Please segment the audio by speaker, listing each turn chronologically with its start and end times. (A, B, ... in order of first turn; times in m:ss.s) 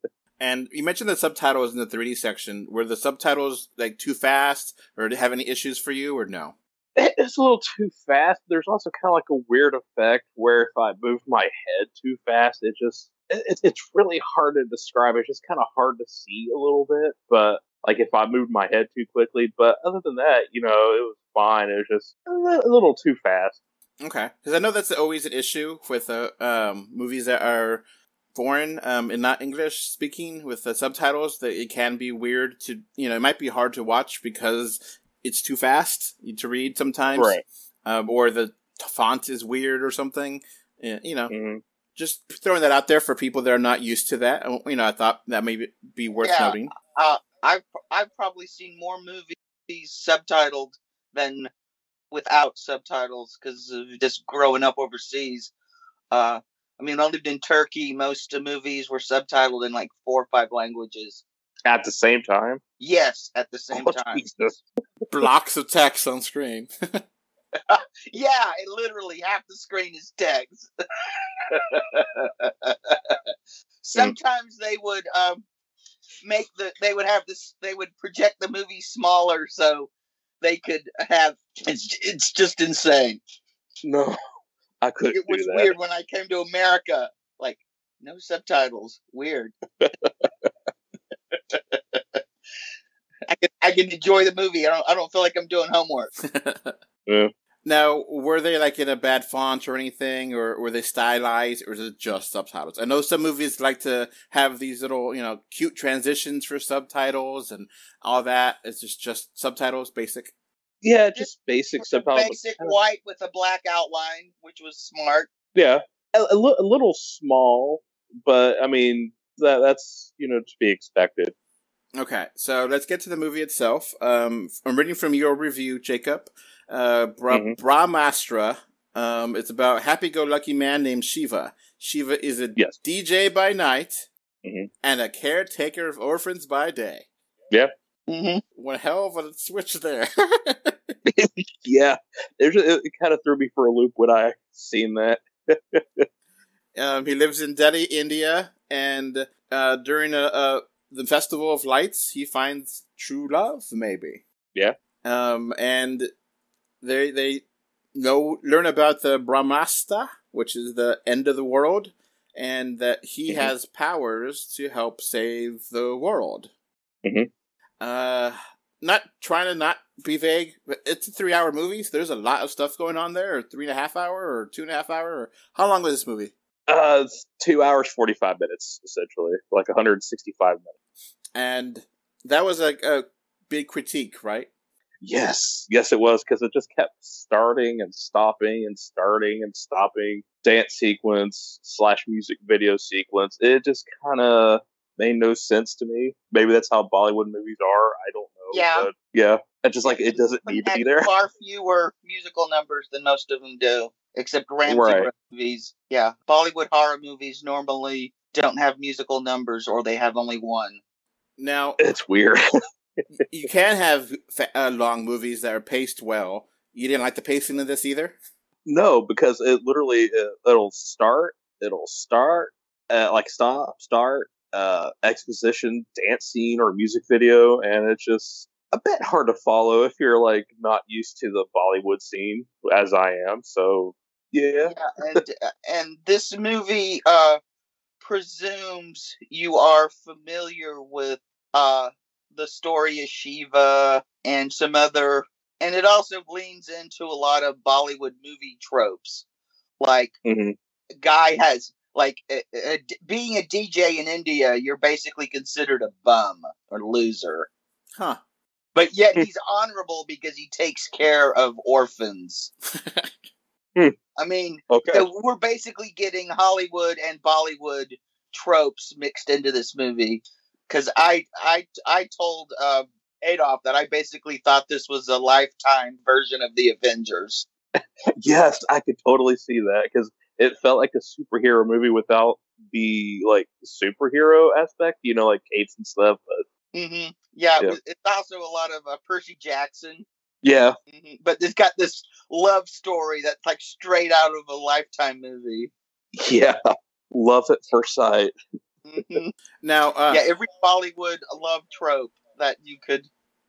0:00.4-0:06.6 A
0:07.0-0:23.6 B
0:24.0-0:27.8 A
0:28.4-0:41.3 A
0:37.2-0:37.4 B
0:41.3-0:41.6 B
0:42.0-0:46.7 A
0:46.2-0:51.5 C
0:52.1-0:55.5 C
0:56.1-1:01.2 C
1:01.7-1:02.6 B
1:02.8-1:04.2 C
1:03.7-1:04.6 B
1:05.1-1:06.7 A
1:07.7-1:10.7 C
1:11.5-1:13.2 C
1:13.8-1:15.4 C
1:16.2-1:19.9 C
1:20.4-1:23.2 C
1:23.8-1:24.2 B
1:24.8-1:25.8 B
1:25.1-1:29.5 C
1:29.8-1:30.5 B
1:31.5-1:32.0 C
1:33.3-1:36.1 C
1:36.3-1:36.7 A
1:37.6-1:50.3 A
1:50.8-1:52.8 B
1:51.2-1:55.3 C
1:55.6-2:01.3 B
2:02.0-2:14.1 A
2:07.3-2:07.6 B
2:14.4-2:14.7 B
2:14.8-2:17.1 A
2:18.1-2:18.4 C
2:18.6-2:20.9 A
2:21.1-2:25.3 B
2:25.8-2:26.0 B
2:26.8-2:34.2 A
2:35.0-2:36.1 A
2:36.8-2:37.4 A
2:38.0-2:46.5 A
2:47.8-2:56.3 A
2:56.7-3:00.7 B
3:01.4-3:04.5 A
3:05.0-3:21.1 B
3:18.5-3:18.9 C
3:20.5-3:30.8 C
3:24.7-3:25.1 B
3:31.4-3:31.8 A
3:31.8-3:32.4 B
3:33.3-3:38.2 A
3:38.7-3:48.5 B
3:48.7-3:49.0 C
3:49.0-3:55.2 B
3:54.6-3:57.4 C
3:58.0-4:09.2 C
4:09.8-4:10.2 C
4:10.3-4:10.6 B
4:11.0-4:17.5 C
4:18.8-4:22.5 C
4:24.2-4:37.5 C
4:24.7-4:25.1 B
4:38.2-4:46.4 B
4:46.7-4:50.1 C
4:50.4-4:50.7 B
4:50.9-4:55.7 C
4:56.2-4:56.6 B
4:57.1-4:58.3 B
4:58.8-4:59.3 C
4:59.6-5:00.2 A
5:00.1-5:03.1 C